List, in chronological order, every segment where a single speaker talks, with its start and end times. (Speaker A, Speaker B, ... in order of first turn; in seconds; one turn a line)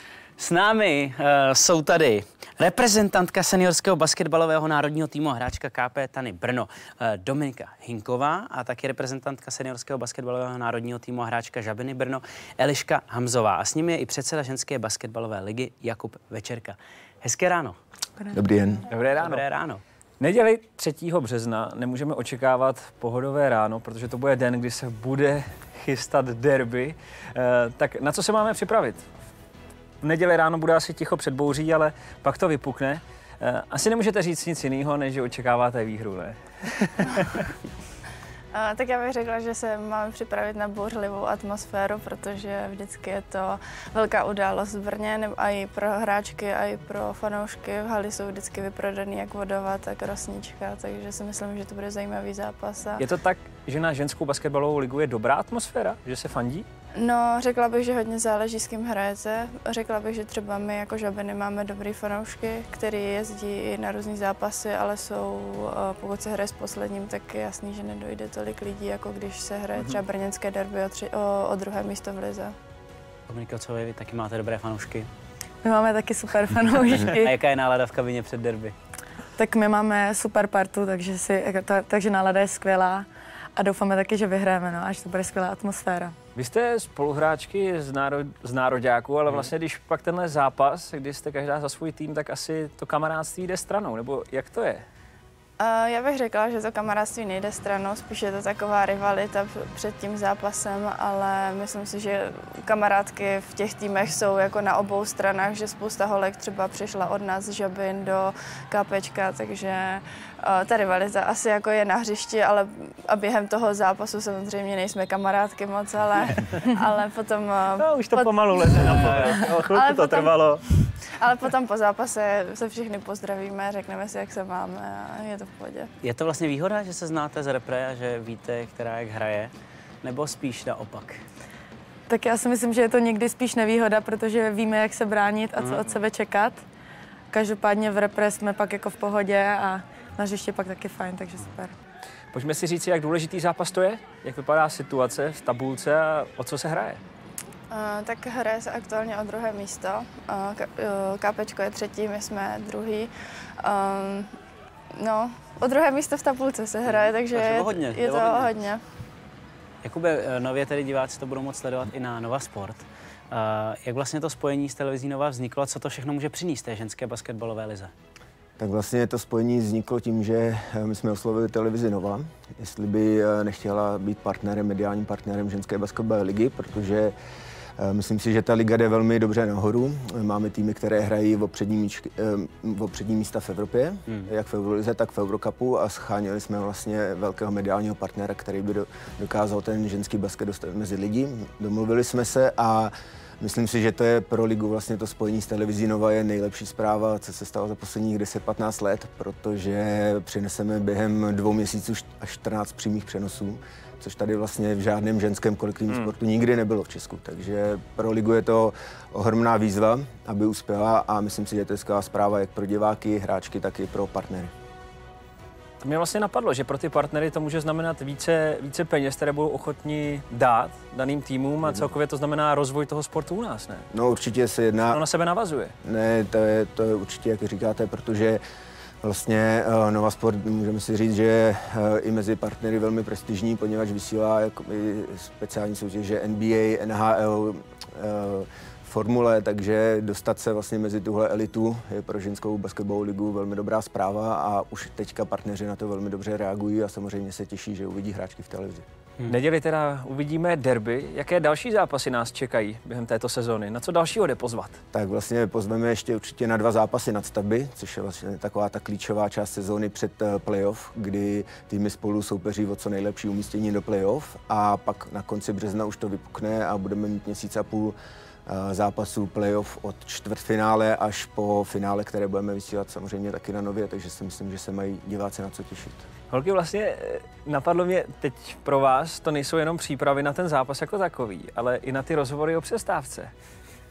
Speaker A: 0.4-17.8
Speaker B: 18.3-18.8
Speaker C: 18.9-19.4
Speaker A: 19.2-19.8
Speaker C: 20.2-29.0
Speaker C: 30.0-37.5
Speaker D: 38.5-53.0
Speaker C: 53.0-56.7
Speaker D: 57.0-72.5
Speaker A: 73.3-75.1
Speaker E: 75.6-77.3
Speaker A: 77.1-78.7
Speaker E: 79.4-86.2
Speaker C: 86.3-94.8
Speaker D: 95.6-120.4
Speaker C: 117.8-120.9
Speaker A: 118.9-119.4
Speaker D: 121.0-125.9
Speaker A: 126.0-129.5
Speaker A: 130.0-131.2
Speaker E: 132.1-136.6
Speaker A: 135.6-136.0
Speaker E: 137.3-141.7
Speaker C: 142.3-147.0
Speaker D: 147.7-154.3
Speaker D: 155.0-158.8
Speaker A: 156.9-158.5
Speaker A: 159.8-167.9
Speaker B: 168.6-177.2
Speaker B: 177.8-214.5
Speaker C: 215.8-223.9
Speaker B: 223.9-225.0
Speaker C: 224.9-225.7
Speaker B: 225.8-228.4
Speaker B: 229.0-248.8
Speaker C: 249.3-254.8
Speaker B: 254.9-267.9
Speaker B: 268.5-276.1
Speaker C: 276.3-283.3